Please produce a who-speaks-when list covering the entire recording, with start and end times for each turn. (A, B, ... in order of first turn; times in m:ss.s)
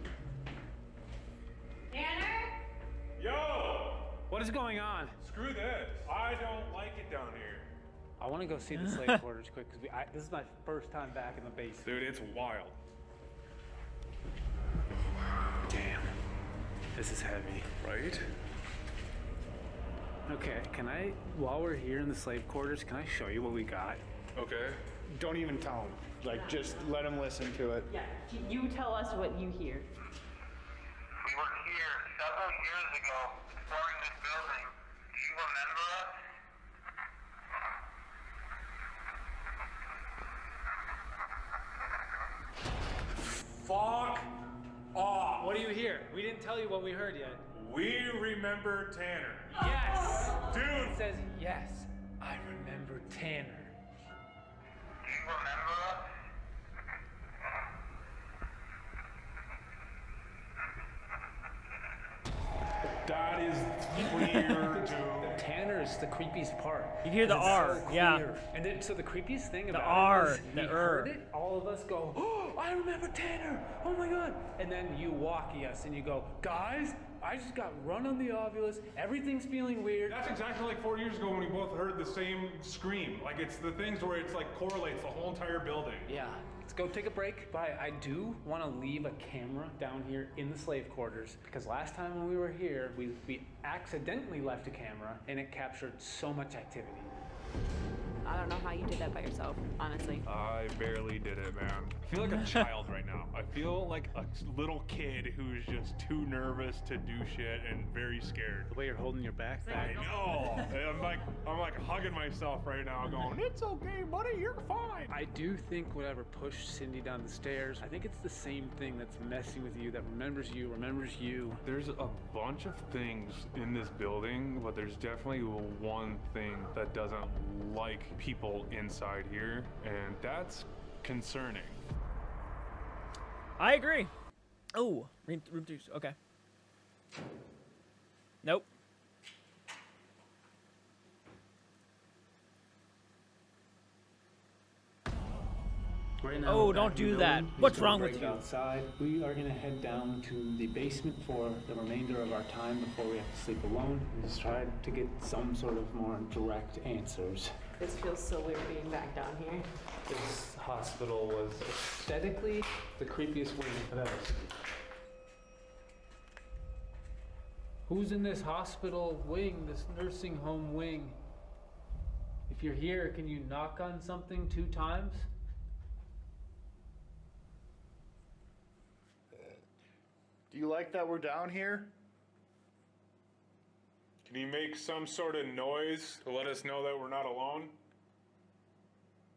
0:01.9-0:02.6 A
0:03.2-0:04.2 B
0:04.3-0:05.2 C
0:05.2-0:07.7 B
0:08.2-0:11.9 C
0:11.8-0:12.8 B
0:15.7-0:16.2 C
0:17.0-0:17.7 C
0:17.8-0:18.3 B
0:20.3-0:24.0 C
0:24.4-0:24.8 B
0:25.1-0:27.9 D
0:26.3-0:26.9 A
0:27.9-0:29.9 A
0:31.2-0:36.2 E
0:43.3-0:44.4 B
0:44.9-0:45.6 B
0:45.4-0:47.4 C
0:47.5-0:49.6 B
0:49.5-0:53.8 C
0:50.3-0:51.0 B
0:55.0-0:56.1 E
1:03.0-1:05.4 B
1:04.0-1:20.3 C
1:07.0-1:08.3 F
1:09.7-1:11.1 F
1:20.1-1:26.1 B
1:26.1-1:37.1 C
1:38.2-1:40.2 A
1:40.2-1:48.7 B
1:48.7-1:50.4 C
1:49.7-1:50.6 A
1:49.7-1:55.2 B
1:55.1-2:01.6 C
2:01.6-2:11.8 B
2:13.6-2:14.1 F
2:14.7-2:16.2 F
2:26.2-2:37.5 C
2:26.5-2:28.4 F
2:37.8-2:39.7 A
2:40.1-2:44.6 C
2:47.9-2:51.2 C
2:52.5-2:55.3 C
3:00.5-3:01.9 D
3:04.2-3:07.8 B